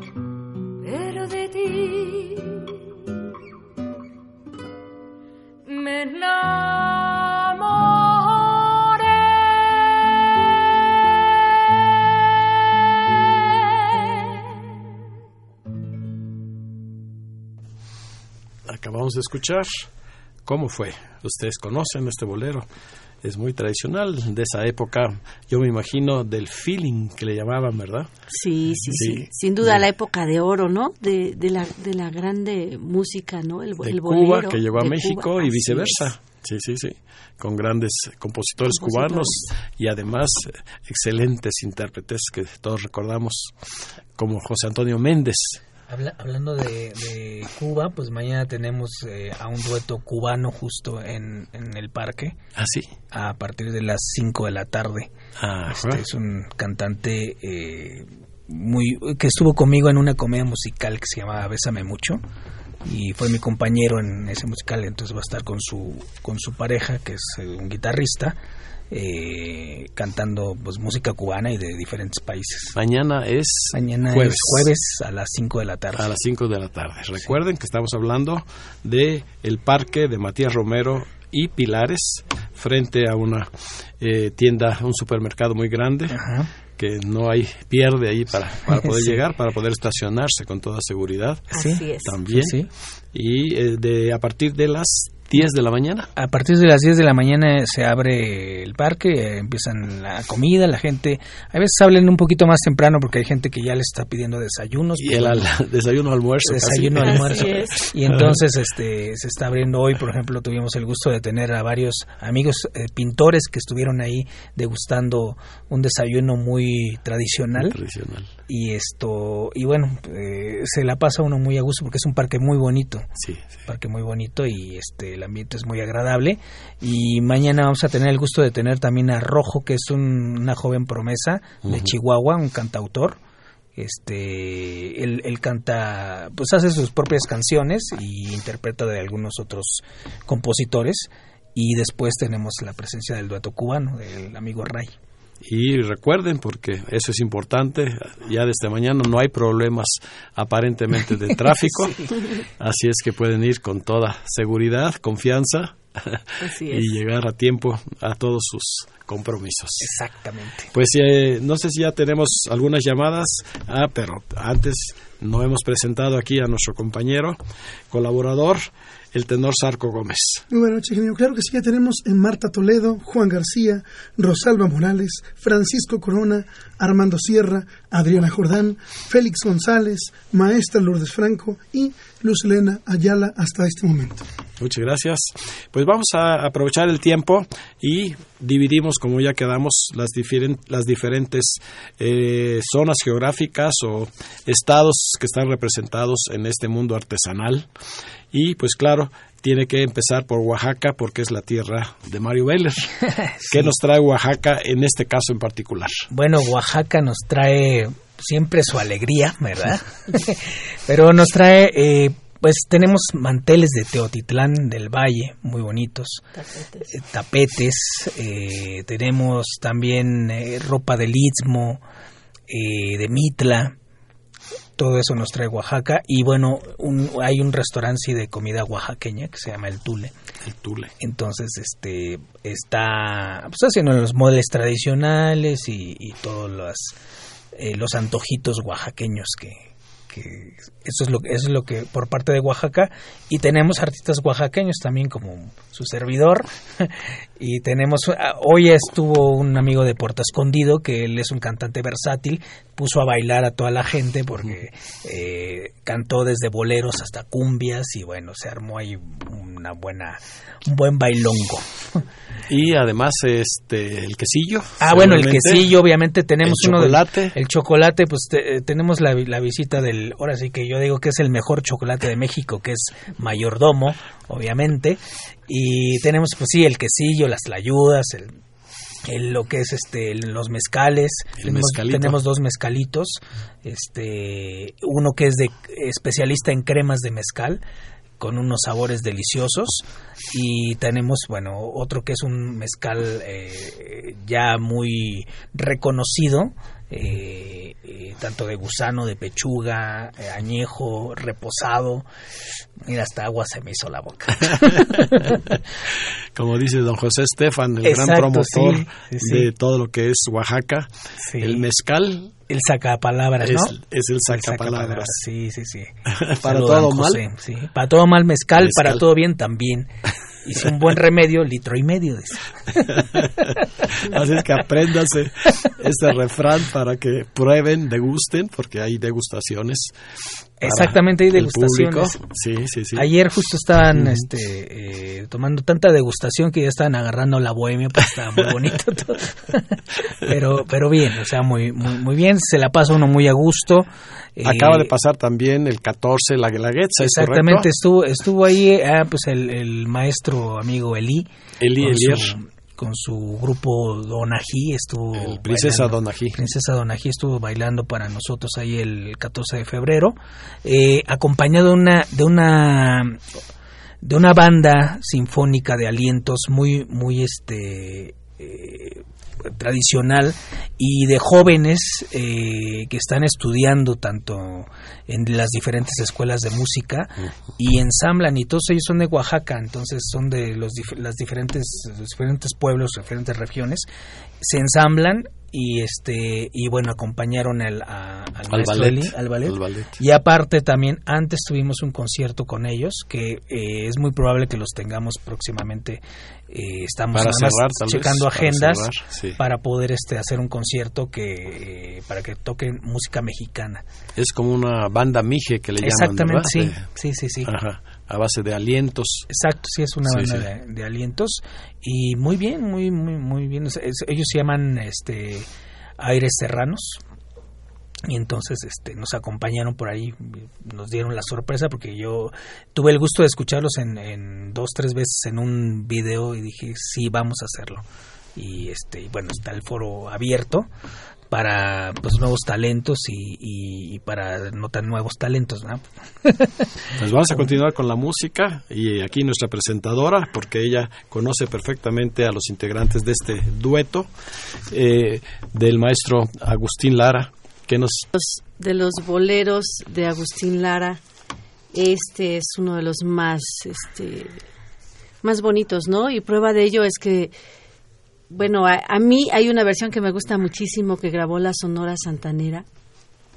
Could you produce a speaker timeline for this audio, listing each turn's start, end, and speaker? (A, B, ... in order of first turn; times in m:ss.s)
0:00.8-0:03.1 A
0:05.6-0:14.9 A
0:18.6-0:19.9 B
0:20.4-0:22.7 B
0:23.2-0:28.1 B
0:28.3-0:36.0 C
0:28.9-0:29.8 B
0:33.8-0:43.5 B
0:38.8-0:39.5 C
0:44.2-0:45.6 B
0:45.9-0:52.4 D
0:52.5-0:52.9 B
0:53.1-0:55.1 D
0:55.4-0:56.0 B
0:55.7-1:02.2 D
1:02.8-1:08.4 D
1:08.9-1:12.7 D
1:12.7-1:14.7 B
1:13.7-1:16.1 D
1:15.9-1:26.2 B
1:26.1-1:26.5 D
1:26.7-1:32.6 B
1:28.7-1:29.2 D
1:31.5-1:32.7 D
1:31.5-1:32.2 C
1:33.1-1:36.1 B
1:36.1-1:45.5 D
1:45.0-1:48.4 B
1:46.4-1:57.8 D
1:47.0-1:47.8 C
1:57.6-1:58.3 B
1:58.5-2:03.1 D
2:03.2-2:03.5 B
2:03.6-2:13.2 D
2:11.6-2:11.9 B
2:13.8-2:24.9 D
2:25.4-2:39.9 B
2:36.4-2:36.9 C
2:39.8-2:40.7 D
2:40.7-2:47.4 B
2:47.9-2:50.4 B
2:50.5-3:04.2 E
3:04.6-3:17.7 B
3:18.3-3:26.1 B
3:23.4-3:23.7 D
3:26.1-3:36.2 D
3:36.3-3:36.8 C
3:36.9-3:41.8 D
3:42.5-3:43.7 D
3:44.8-3:50.1 D
3:50.4-3:50.9 B
3:51.0-3:56.9 D
3:57.5-4:22.0 D
4:22.5-4:25.8 B
4:24.8-4:38.4 D
4:26.4-4:27.4 B
4:39.0-4:47.6 D
4:41.4-4:42.2 B
4:48.2-5:02.0 D
5:02.8-5:05.4 D
5:04.9-5:12.3 B
5:07.8-5:09.5 D
5:11.2-5:11.6 D
5:12.5-5:13.7 D
5:13.4-5:15.2 B
5:14.3-5:19.9 D
5:16.1-5:17.2 B
5:18.6-5:19.0 B
5:20.4-5:24.0 D
5:22.9-5:29.9 B
5:30.6-5:32.2 D
5:30.6-5:33.1 B
5:32.9-5:44.9 D
5:44.4-5:47.7 B
5:47.0-5:51.3 D
5:51.6-5:52.4 B
5:51.8-6:03.2 D
5:55.1-5:56.4 B
6:04.0-6:23.9 D
6:24.4-6:43.8 D
6:28.5-6:30.0 B
6:37.1-6:39.4 B
6:44.2-6:46.8 B
6:45.8-6:47.5 D
6:47.4-6:49.3 B
6:49.3-6:55.5 D
6:50.0-6:50.4 B
6:56.0-6:57.0 D
6:58.1-7:07.8 D
7:08.3-7:10.7 D
7:11.3-7:16.6 D
7:16.9-7:24.1 B
7:24.7-7:28.1 B
7:28.1-7:31.0 C
7:31.7-7:34.3 C
7:35.2-7:37.3 C
7:38.3-7:42.6 C